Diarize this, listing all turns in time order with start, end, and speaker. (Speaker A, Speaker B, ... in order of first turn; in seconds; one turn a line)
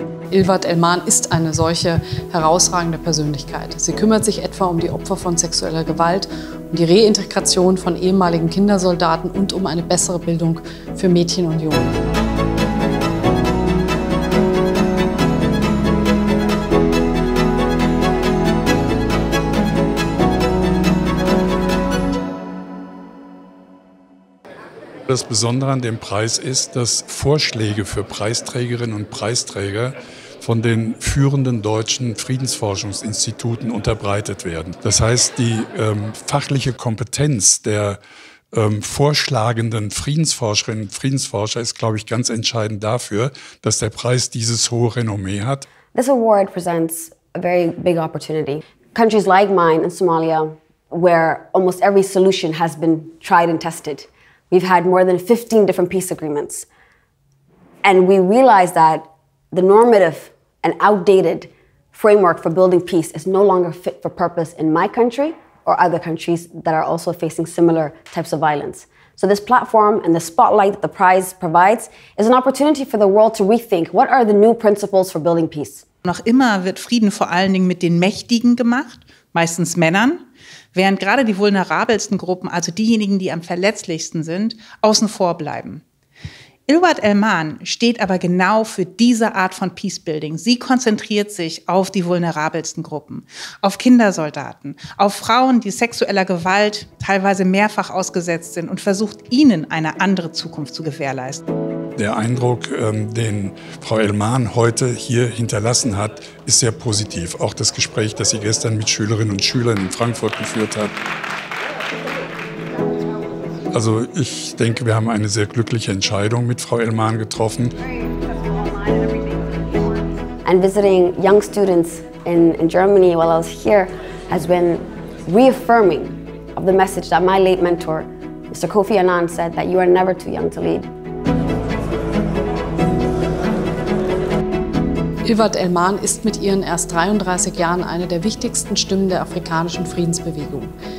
Speaker A: 0.3-11.9
Speaker B: 25.1-38.0
Speaker B: 38.5-45.7
Speaker C: 45.9-56.7
Speaker C: 57.8-75.8
Speaker D: 76.0-80.2
Speaker D: 80.7-85.8
Speaker D: 86.7-101.4
Speaker B: 102.0-110.9
Speaker B: 113.7-117.7
Speaker C: 120.4-130.9
Speaker A: 135.2-140.7